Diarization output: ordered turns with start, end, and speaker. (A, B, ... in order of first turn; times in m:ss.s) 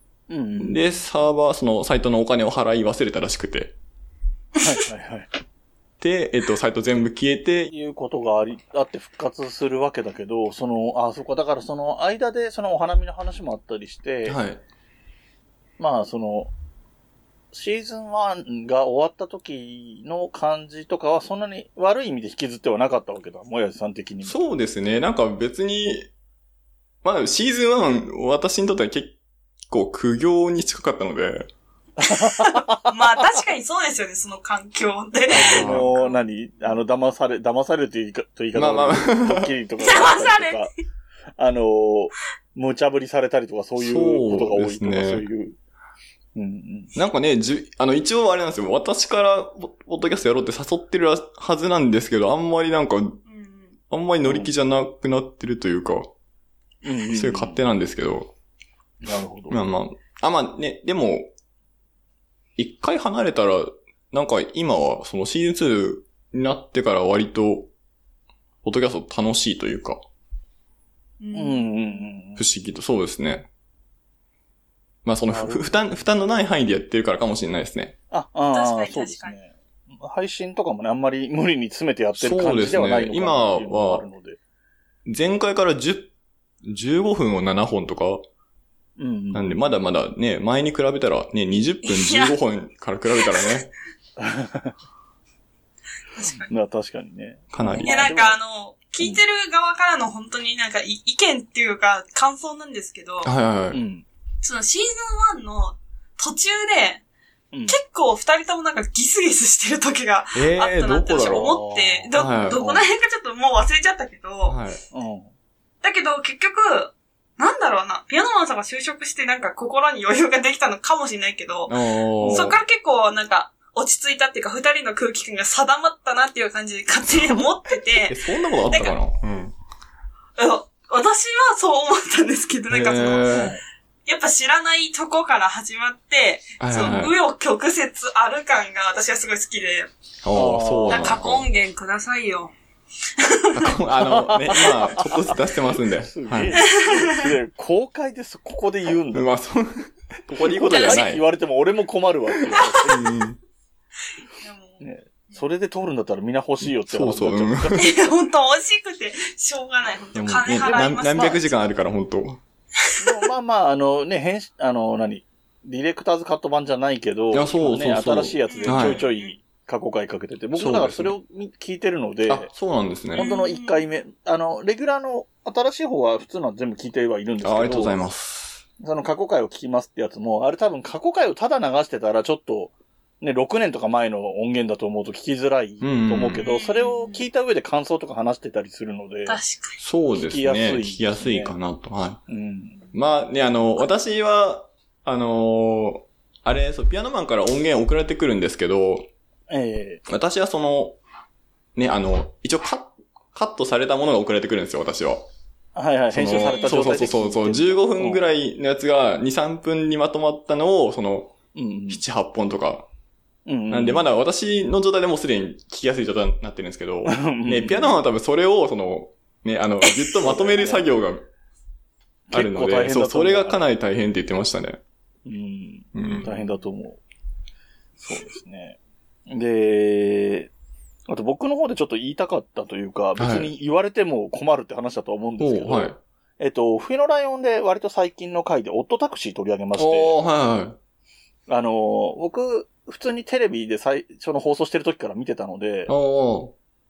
0:00.3-0:00.8 A
0:00.6-0:03.8 B
0:04.6-0:05.3 A
0:06.0-0:07.7 B
0:07.7-0:14.4 A
0:14.2-0:14.6 B
0:15.8-0:16.5 A
0:17.5-0:24.4 A
0:24.2-0:26.1 B
0:27.0-0:29.2 B
0:29.7-0:31.5 B
0:32.0-0:32.9 A
0:32.2-0:36.2 C
0:35.3-0:35.9 B
0:35.3-0:40.7 A
0:38.5-0:39.5 B
0:39.8-0:40.7 C
0:41.4-0:45.6 A
0:43.8-0:45.2 B
0:46.3-0:46.9 A
0:46.9-0:53.2 B
0:53.3-0:53.8 C
0:53.9-0:56.1 B
0:54.2-0:54.5 A
0:56.8-0:57.6 A
0:57.1-0:58.3 B
0:59.0-0:59.6 A
0:59.5-1:01.3 B
1:02.6-1:07.7 B
1:08.6-1:10.0 B
1:11.2-1:12.1 C
1:11.3-1:12.4 A
1:12.4-1:13.5 B
1:15.0-1:18.0 B
1:15.3-1:15.8 A
1:18.1-1:24.4 A
1:18.5-1:19.3 C
1:22.2-1:24.0 B
1:25.0-1:26.1 B
1:26.6-1:28.2 B
1:29.0-1:29.4 A
1:29.3-1:33.7 B
1:31.8-1:32.4 C
1:34.2-1:34.7 A
1:36.1-1:36.5 C
1:36.5-1:38.4 A
1:37.5-1:38.1 B
1:37.8-1:43.3 C
1:43.2-1:43.8 B
1:43.7-1:44.0 A
1:44.4-1:47.0 C
1:47.5-1:47.8 A
1:47.7-1:54.6 C
1:50.3-1:51.5 B
1:51.2-1:52.9 A
1:52.1-1:52.7 B
1:54.4-1:54.8 B
1:54.9-1:55.3 A
1:55.8-2:09.0 C
2:01.7-2:02.6 B
2:02.2-2:02.5 A
2:07.1-2:07.4 B
2:08.0-2:09.5 B
2:10.4-2:13.5 C
2:12.7-2:13.6 B
2:13.3-2:13.6 A
2:14.0-2:19.9 C
2:16.6-2:17.1 B
2:20.2-2:21.5 B
2:20.3-2:21.2 A
2:20.9-2:22.5 C
2:23.2-2:23.7 C
2:23.5-2:26.6 B
2:24.0-2:25.3 A
2:26.0-2:29.3 A
2:26.6-2:27.3 C
2:29.1-2:31.2 B
2:30.3-2:33.1 A
2:30.6-2:31.1 C
2:32.8-2:33.4 B
2:34.4-2:35.4 C
2:34.8-2:38.0 A
2:36.6-2:37.9 B
2:37.7-2:41.6 C
2:40.1-2:42.4 B
2:43.0-2:52.5 A
2:47.3-2:49.0 B
2:48.5-2:49.3 C
2:50.6-2:51.1 B
2:52.3-2:53.3 B
2:53.1-2:58.0 A
2:53.2-2:53.8 C
2:57.4-2:58.6 B
2:58.8-3:09.4 A
3:05.8-3:06.4 B
3:06.4-3:07.2 C
3:09.3-3:09.8 C
3:09.8-3:12.2 B
3:10.2-3:11.5 A
3:12.3-3:12.8 A
3:12.9-3:19.1 B
3:19.5-3:20.0 A
3:20.1-3:21.0 B
3:21.8-3:25.3 B
3:25.7-3:28.2 A
3:26.1-3:31.3 B
3:26.3-3:27.2 C
3:31.5-3:32.0 A
3:31.9-3:32.9 B
3:33.4-3:34.1 A
3:33.7-3:41.2 B
3:37.0-3:38.0 A
3:40.2-3:40.9 A
3:42.3-3:43.6 A
3:42.3-3:44.8 B
3:45.2-3:47.0 A
3:45.9-3:46.3 B
3:46.0-3:46.5 C
3:48.0-3:50.5 A
3:51.1-4:00.2 A
3:53.2-3:53.5 B
3:55.4-3:56.0 B
3:59.8-4:00.8 B
4:01.5-4:05.9 A
4:05.9-4:06.5 B